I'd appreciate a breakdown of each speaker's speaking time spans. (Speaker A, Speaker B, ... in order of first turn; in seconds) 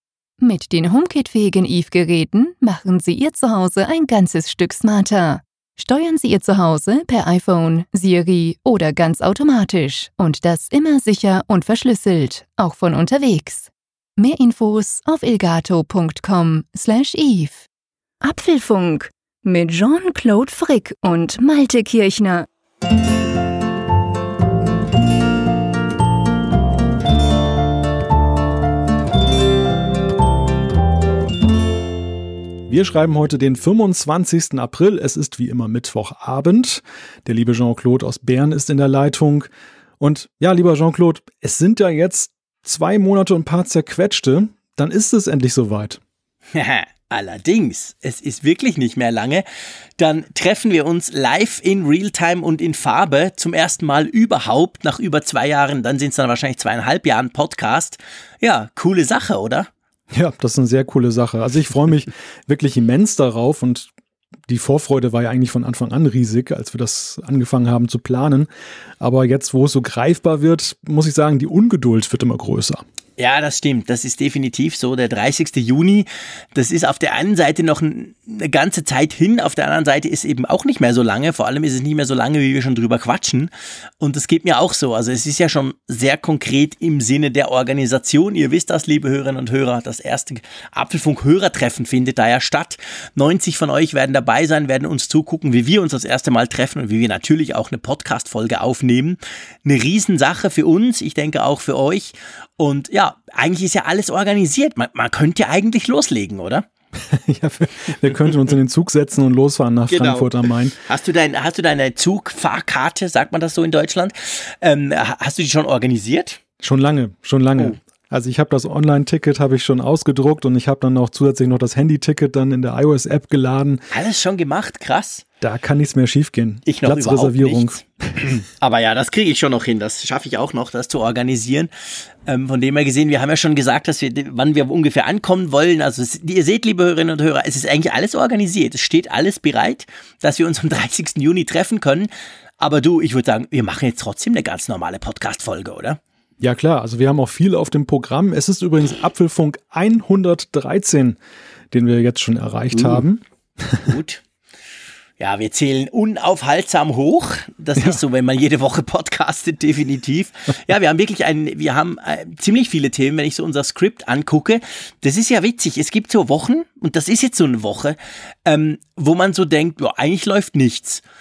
Speaker A: 0.4-17.6, 18.2-22.5
Speaker B: 32.7-46.0, 60.1-63.9, 64.5-68.5, 69.0-72.8, 107.0-110.8, 116.6-123.8, 125.4-128.4, 146.4-151.2, 151.7-153.9
Speaker C: 46.5-49.5, 50.0-59.7, 73.2-106.7, 109.9-116.4, 123.9-125.2, 126.7-131.7, 132.2-146.0, 152.7-153.0, 153.8-154.2, 155.2-171.0